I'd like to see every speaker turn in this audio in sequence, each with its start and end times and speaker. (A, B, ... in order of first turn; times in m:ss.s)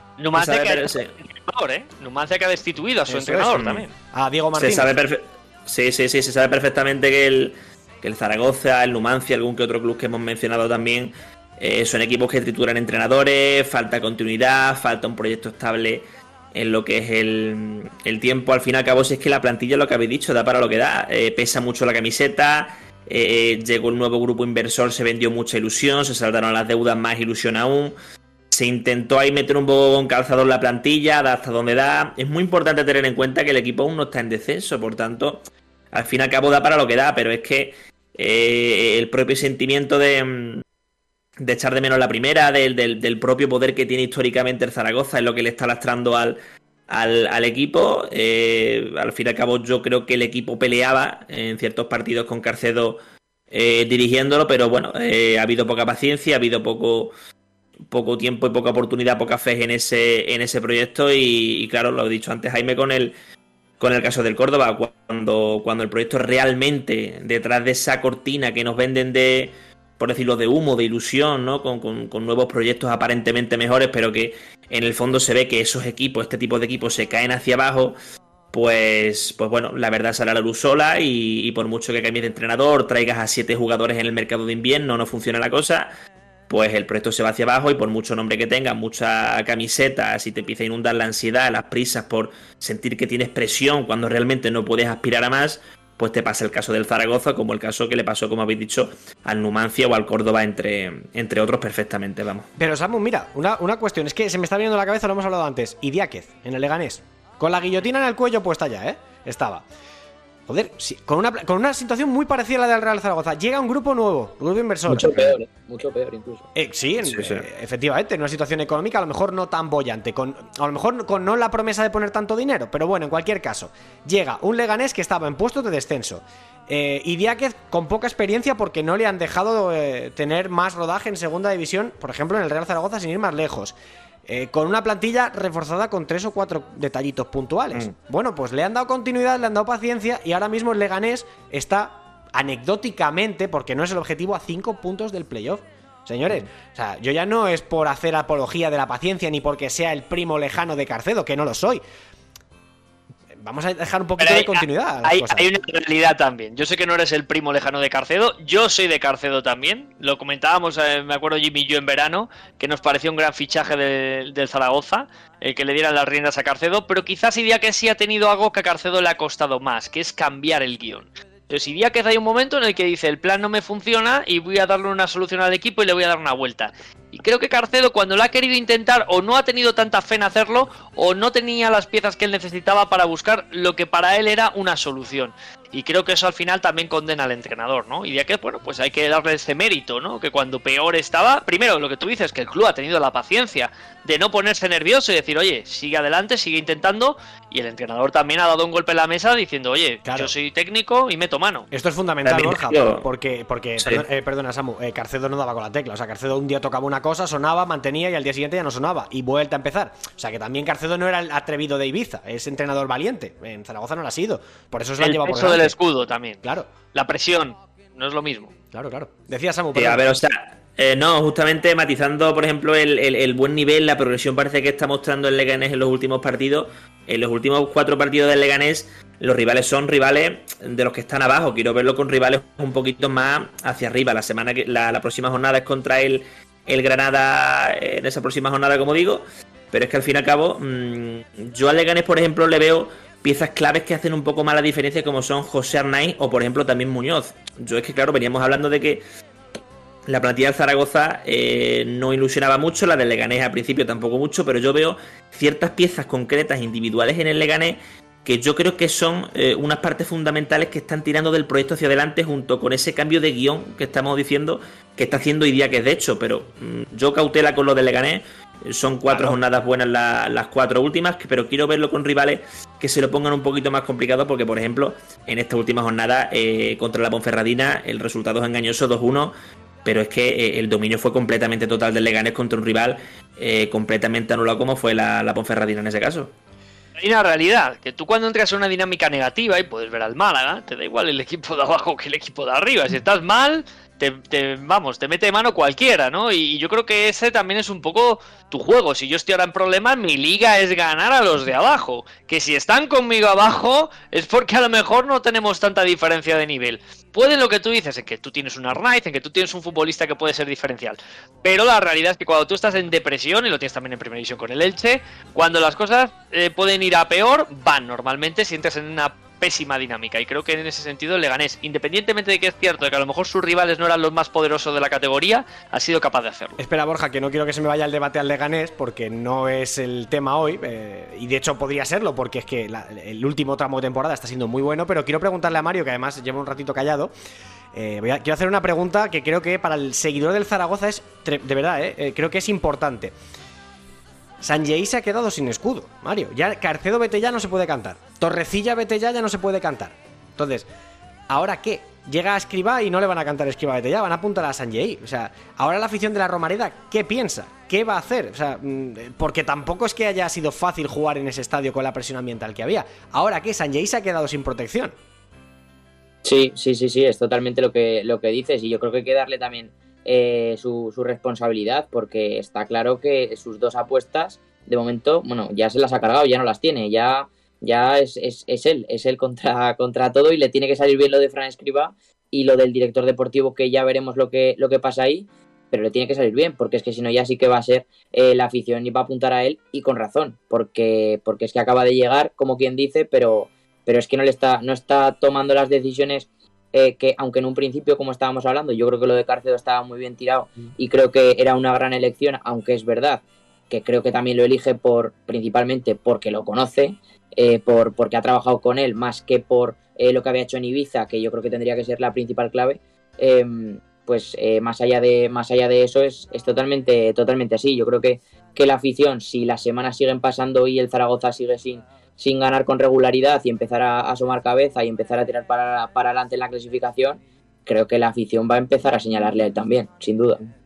0:00.2-0:03.9 A
0:00.3-0:01.1 B
0:03.1-0:04.9 C
0:04.6-0:28.0 B
0:28.5-0:40.6 B
0:41.4-0:53.0 B
0:53.5-0:57.1 B
0:57.9-1:03.1 B
1:03.8-1:18.0 B
1:18.5-1:25.9 B
1:26.5-1:42.5 B
1:42.6-1:49.7 C
1:50.5-1:55.3 C
1:54.9-1:56.5 D
1:55.0-1:55.3 B
1:56.6-2:31.8 C
1:57.0-1:57.4 B
2:33.3-2:35.5 C
2:34.2-3:21.7 A
3:20.0-3:20.3 C
3:21.7-3:35.8 C
3:22.2-3:23.0 B
3:23.8-3:24.0 B
3:35.0-3:38.5 A
3:36.4-3:36.7 C
3:38.7-3:40.2 C
3:39.7-4:09.0 B
4:10.1-4:39.3 B
4:39.8-4:46.3 B
4:47.0-5:26.6 A
5:26.6-5:37.1 C
5:37.7-5:43.1 C
5:44.4-5:50.7 C
5:51.3-6:05.0 C
6:06.2-7:10.5 D